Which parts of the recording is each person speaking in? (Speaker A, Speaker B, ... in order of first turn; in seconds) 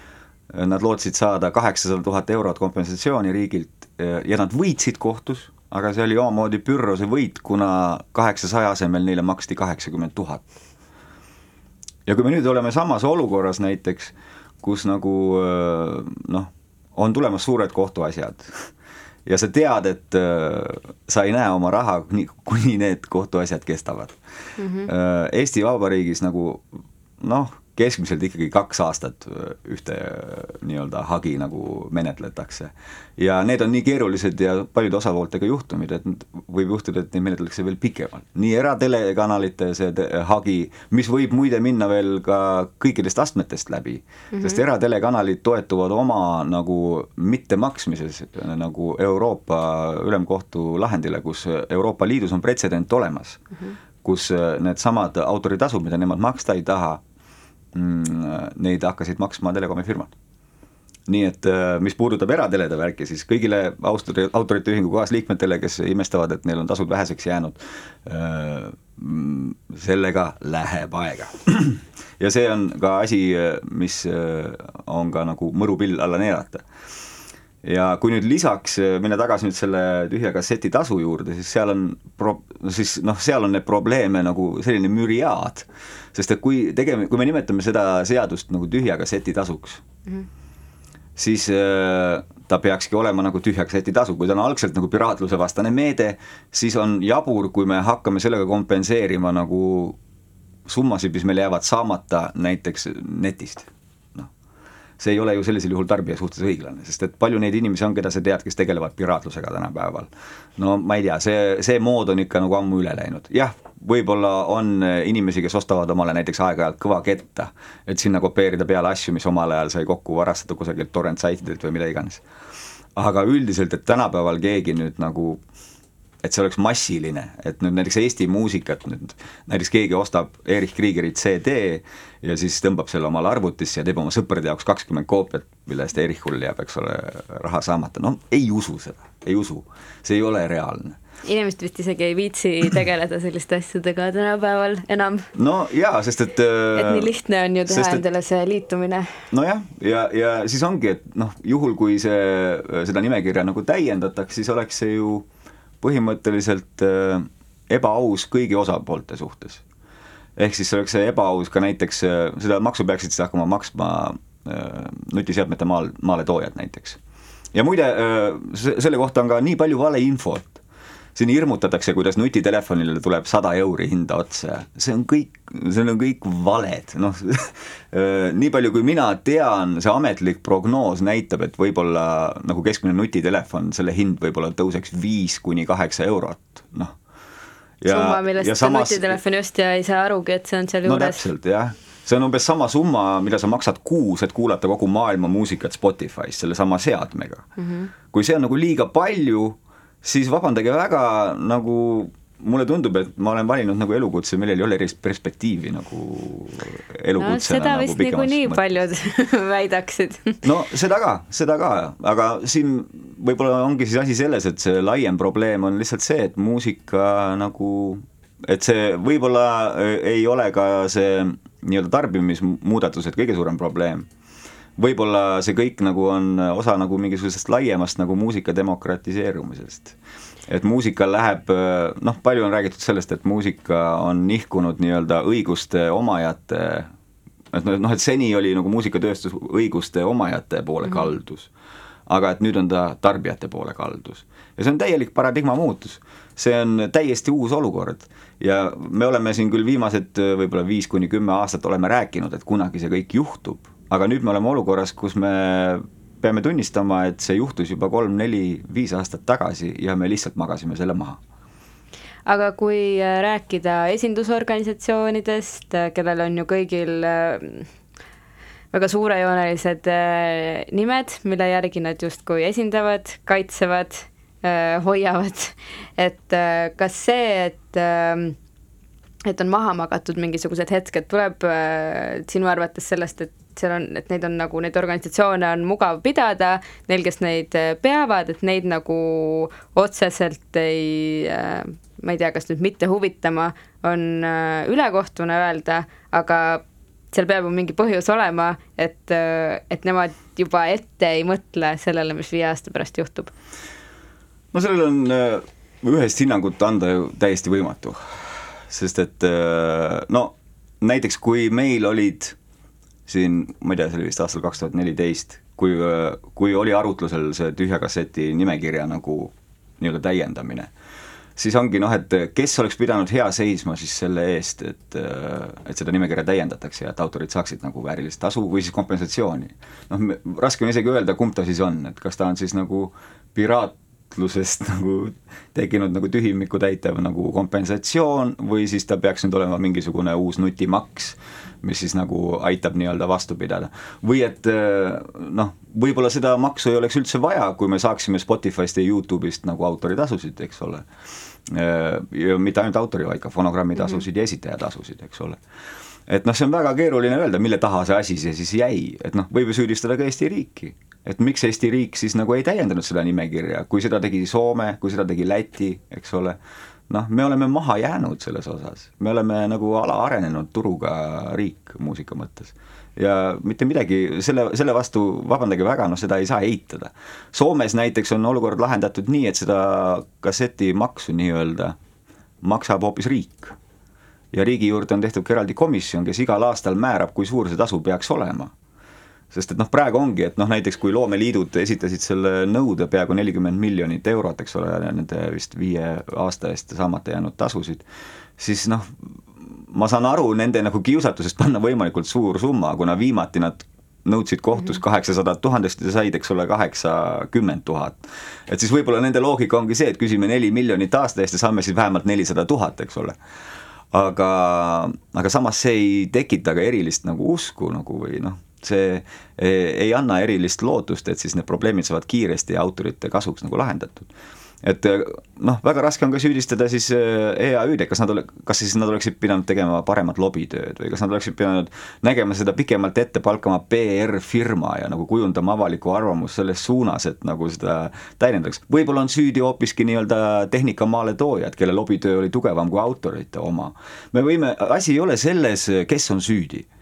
Speaker A: 0.5-10.4, 12.1-18.7, 19.2-24.2, 24.8-26.6, 27.2-53.4, 54.0-57.0, 57.7-60.1, 61.1-76.6, 77.6-89.8, 91.2-100.0, 100.7-104.3, 105.0-122.2, 123.0-125.4, 126.2-141.0, 145.3-147.1, 147.7-148.0, 149.3-155.2, 155.8-159.6, 160.4-167.0, 167.5-170.6, 171.1-186.9, 187.8-189.2, 190.8-197.4, 198.1-208.6, 210.4-224.1, 224.8-229.9, 230.5-236.9, 237.5-241.5, 242.1-261.2, 304.5-308.0, 308.7-312.4, 313.1-320.7, 321.4-350.9, 351.4-355.4, 356.1-366.4, 366.9-381.8, 382.4-383.6, 384.3-388.5, 389.3-397.8, 398.4-413.2, 413.9-424.1, 424.6-446.7
Speaker B: 24.6-24.9, 44.3-44.6, 141.2-145.3, 146.7-149.1, 187.9-191.2, 197.6-197.9, 207.2-210.4, 262.2-267.7, 268.7-278.4, 279.2-303.3